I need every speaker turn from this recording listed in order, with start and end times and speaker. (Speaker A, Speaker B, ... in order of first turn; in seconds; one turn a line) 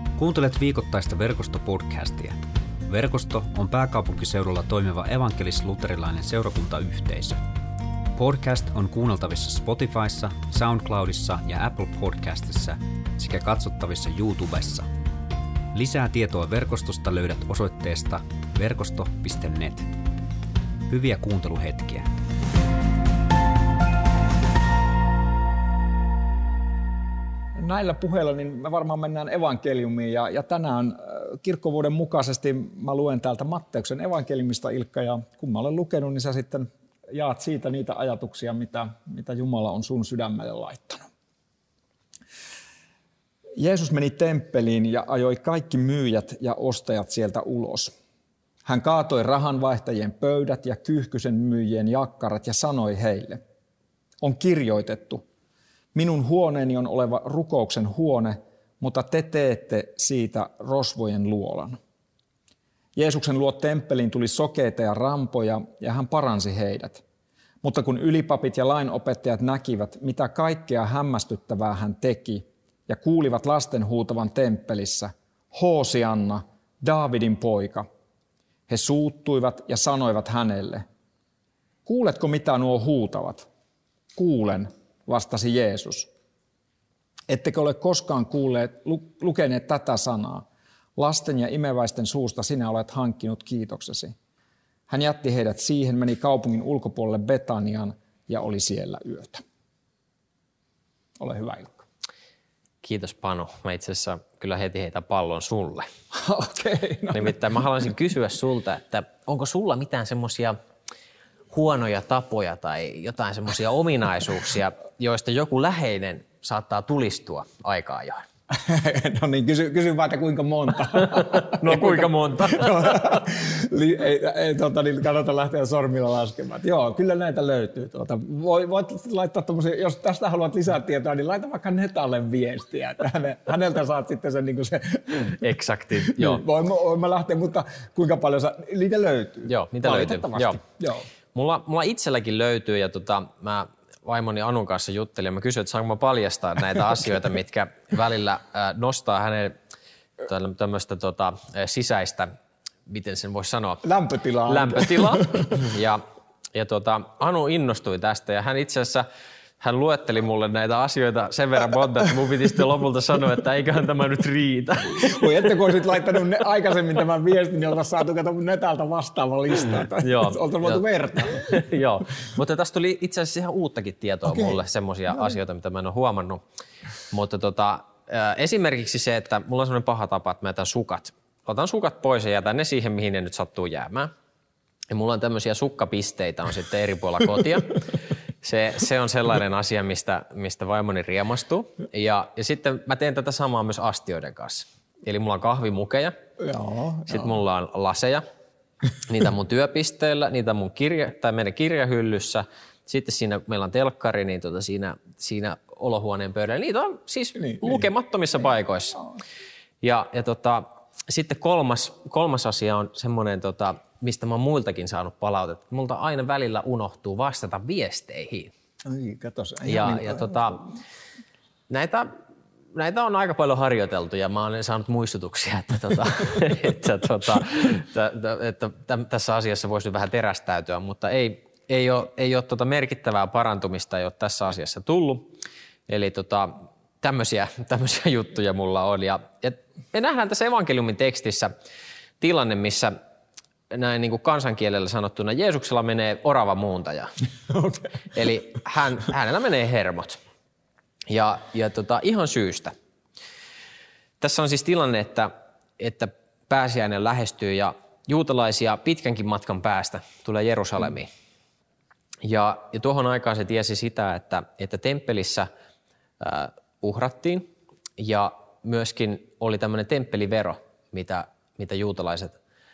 Speaker A: 0.2-7.4
Speaker A: 8.2-14.9
Speaker A: 15.7-19.9
Speaker A: 20.9-22.1
Speaker B: 27.6-41.1
Speaker B: 43.6-47.9
Speaker B: 48.6-53.4
Speaker B: 54.2-55.2
Speaker B: 55.9-61.8
Speaker B: 63.0-67.0
Speaker B: 67.6-77.8
Speaker B: 78.7-80.8
Speaker B: 81.9-83.5
Speaker B: 84.2-86.1
Speaker B: 87.3-90.5
Speaker B: 91.0-94.1
Speaker B: 94.9-99.4
Speaker B: 101.2-101.8
Speaker C: 102.8-105.9
Speaker B: 106.1-107.4
Speaker C: 107.1-110.6
Speaker C: 111.5-118.2
Speaker B: 118.5-135.4
Speaker C: 121.1-123.2
Speaker C: 135.3-136.4
Speaker B: 136.0-141.0
Speaker C: 139.5-140.6
Speaker C: 141.3-149.6
Speaker C: 150.2-152.3
Speaker C: 152.9-153.9
Speaker B: 153.8-155.5
Speaker C: 154.5-156.0
Speaker C: 156.6-159.1
Speaker C: 159.6-165.2
Speaker B: 165.0-171.4
Speaker C: 170.0-176.4
Speaker B: 174.3-174.6
Speaker C: 177.1-184.1
Speaker C: 184.9-196.2
Speaker B: 196.4-197.3
Speaker C: 197.1-198.2
Speaker C: 199.1-209.0
Speaker B: 207.4-207.8
Speaker C: 209.8-218.5
Speaker B: 218.8-220.6
Speaker C: 219.7-220.6
Speaker C: 221.7-222.1
Speaker C: 222.8-235.3
Speaker C: 235.9-241.5
Speaker C: 242.2-242.9
Speaker C: 243.7-247.1
Speaker C: 247.6-250.2
Speaker C: 251.1-252.7
Speaker C: 254.2-261.1
Speaker C: 262.2-265.5
Speaker C: 266.2-272.4